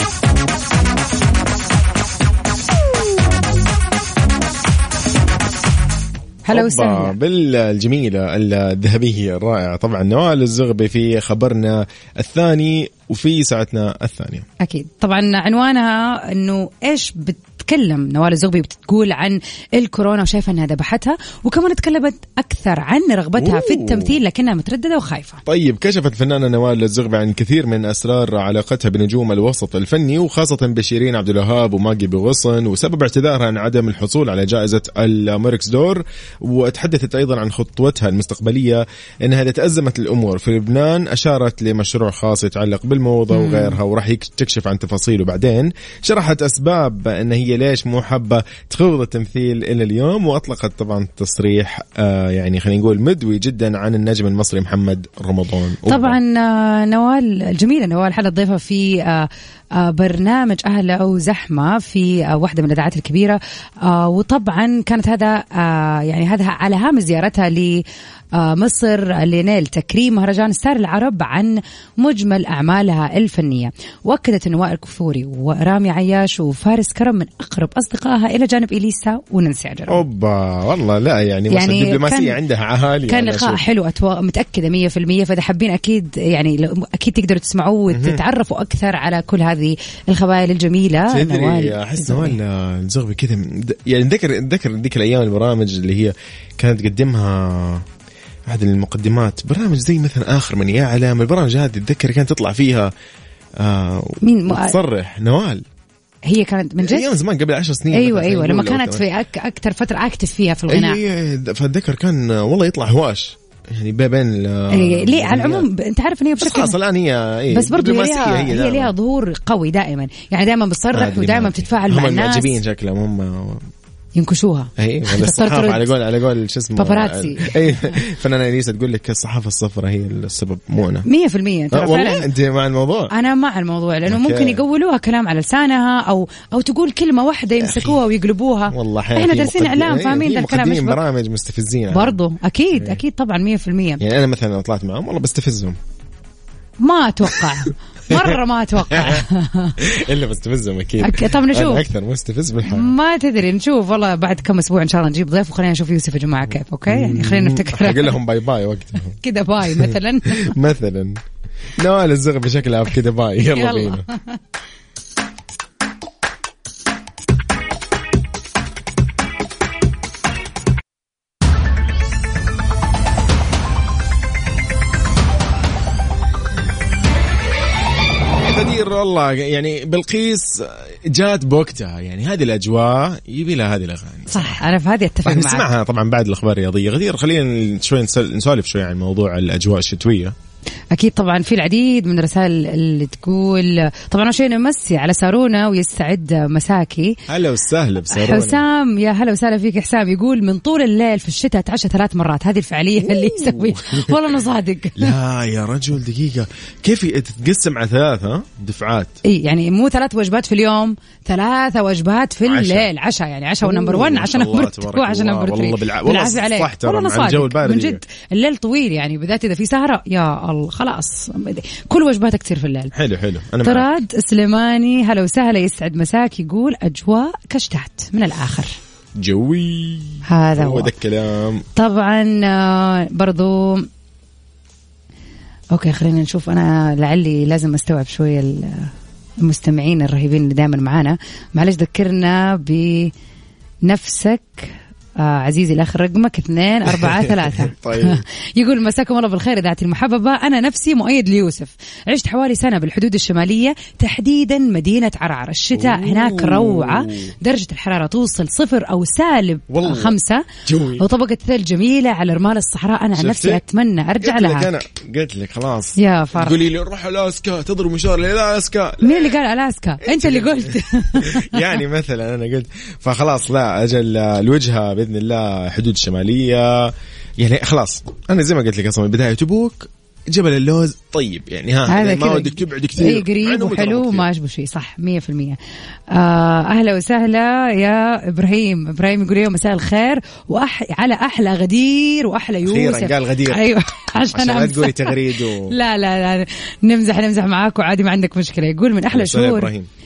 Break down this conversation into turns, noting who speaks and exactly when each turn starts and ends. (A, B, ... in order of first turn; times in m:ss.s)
0:06.5-0:07.2 A
0:06.5-0:14.4 B
0:14.6-0:25.4 A
0:23.4-0:24.2 B
0:25.5-0:56.2 B
0:43.3-0:43.8 A
0:55.9-1:07.8 A
1:08.4-1:20.0 A
1:19.9-1:23.6 B
1:21.5-1:22.4 A
1:23.1-1:32.4 A
1:27.9-1:28.2 B
1:31.1-1:37.9 B
1:38.5-1:42.9 B
1:43.6-1:45.6 B
1:44.2-1:44.8 A
1:46.3-1:47.1 A
1:46.8-1:49.0 B
1:47.9-1:51.0 A
1:50.7-1:55.7 B
1:54.7-1:56.8 A
1:56.4-1:58.9 B
1:57.5-2:02.6 A
2:00.9-2:03.7 B
2:04.2-2:05.9 A
2:04.8-2:11.1 B
2:06.8-2:08.0 A
2:11.1-2:12.3 A
2:11.7-2:13.1 B
2:13.1-2:21.0 A
2:14.1-2:14.6 B
2:17.6-2:18.0 B
2:18.7-2:22.2 B
2:21.9-2:24.0 A
2:24.0-2:25.8 B
2:26.8-2:29.8 A
2:28.1-2:29.2 B
2:29.8-2:32.9 B
2:31.0-2:31.8 A
2:32.7-2:38.2 A
2:36.9-2:41.2 B
2:39.2-2:40.6 A
2:41.8-2:44.0 B
2:43.5-2:44.4 A
2:58.4-3:04.6 B
3:04.3-3:05.7 A
3:05.2-3:10.4 B
3:10.9-3:17.2 A
3:17.3-3:18.6 B
3:18.1-3:25.2 A
3:23.0-3:24.4 B
3:25.0-3:29.2 B
3:29.2-3:42.9 A
3:32.5-3:32.9 B
3:33.6-3:38.0 B
3:42.9-3:43.9 B
3:43.6-3:48.7 A
3:49.2-3:51.7 B
3:50.3-3:50.9 A
3:51.8-3:53.9 A
3:55.7-4:03.1 A
4:03.8-4:24.8 A
4:07.0-4:08.2 B
4:15.7-4:17.3 B
4:19.7-4:21.0 B
4:23.2-4:23.6 B
4:24.2-4:29.4 B
4:26.0-4:26.6 A
4:29.0-4:31.8 A
4:30.0-4:44.3 B
4:41.9-4:45.6 A
4:46.1-4:59.7 A
4:52.6-4:53.6 B
4:54.3-4:55.7 B
4:59.1-4:59.9 B